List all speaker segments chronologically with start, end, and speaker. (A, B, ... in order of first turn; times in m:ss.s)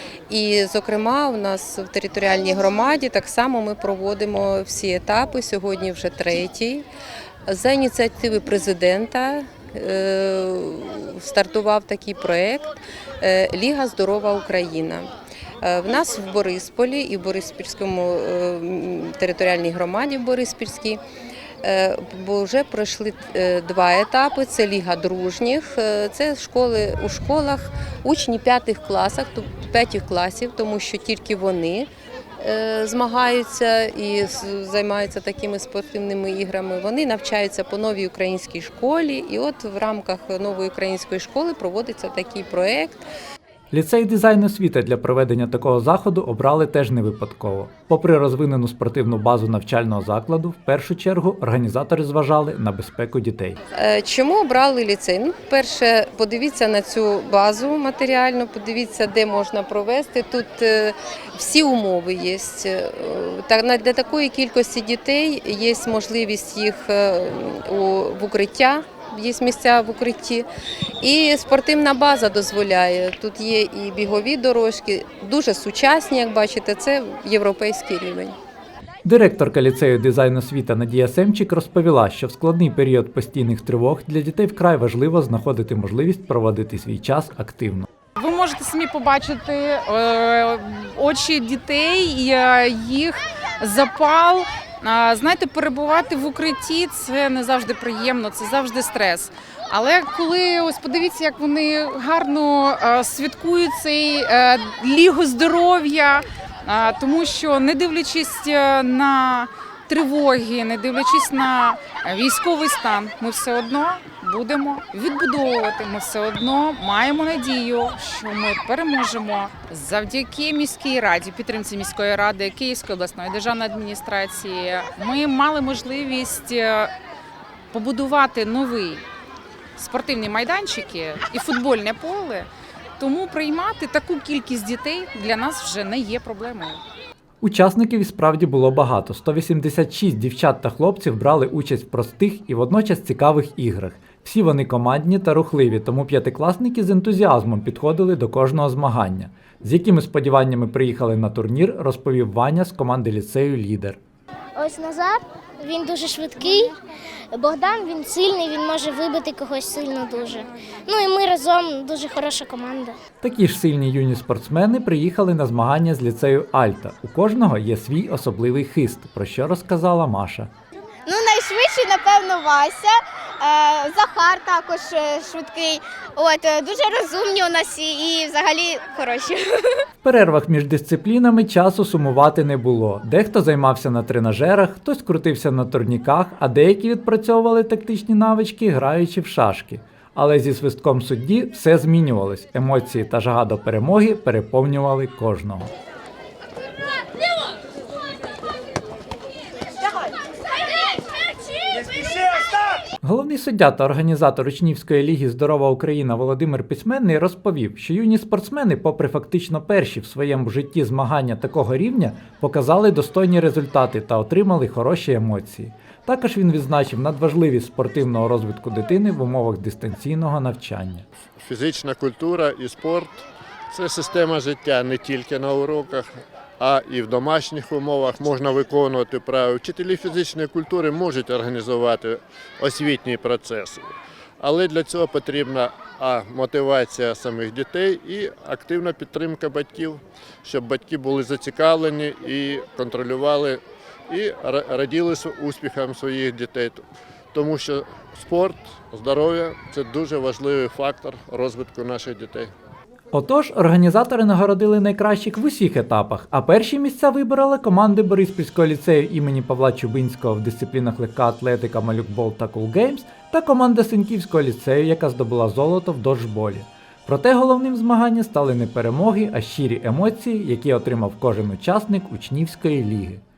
0:00.3-0:06.8 A
0:07.5-0:15.1 A
0:15.6-0:21.0 A
0:21.6-0:43.0 A
0:43.7-0:53.6 B
0:53.7-1:10.5 A
1:11.0-1:18.4 A
1:19.0-1:27.9 B
1:28.2-2:06.9 C
2:07.7-2:09.0 C
2:09.8-2:16.8 C
2:17.4-2:34.0 B
2:34.6-2:36.7 D
2:37.3-2:42.9 D
2:43.2-2:50.5 B
2:51.0-2:59.7 E
3:00.0-3:15.7 B
3:23.0-3:41.1 B
3:41.4-3:46.1 F
3:46.6-3:53.8 F
3:54.4-4:12.5 F
4:13.1-4:33.2 B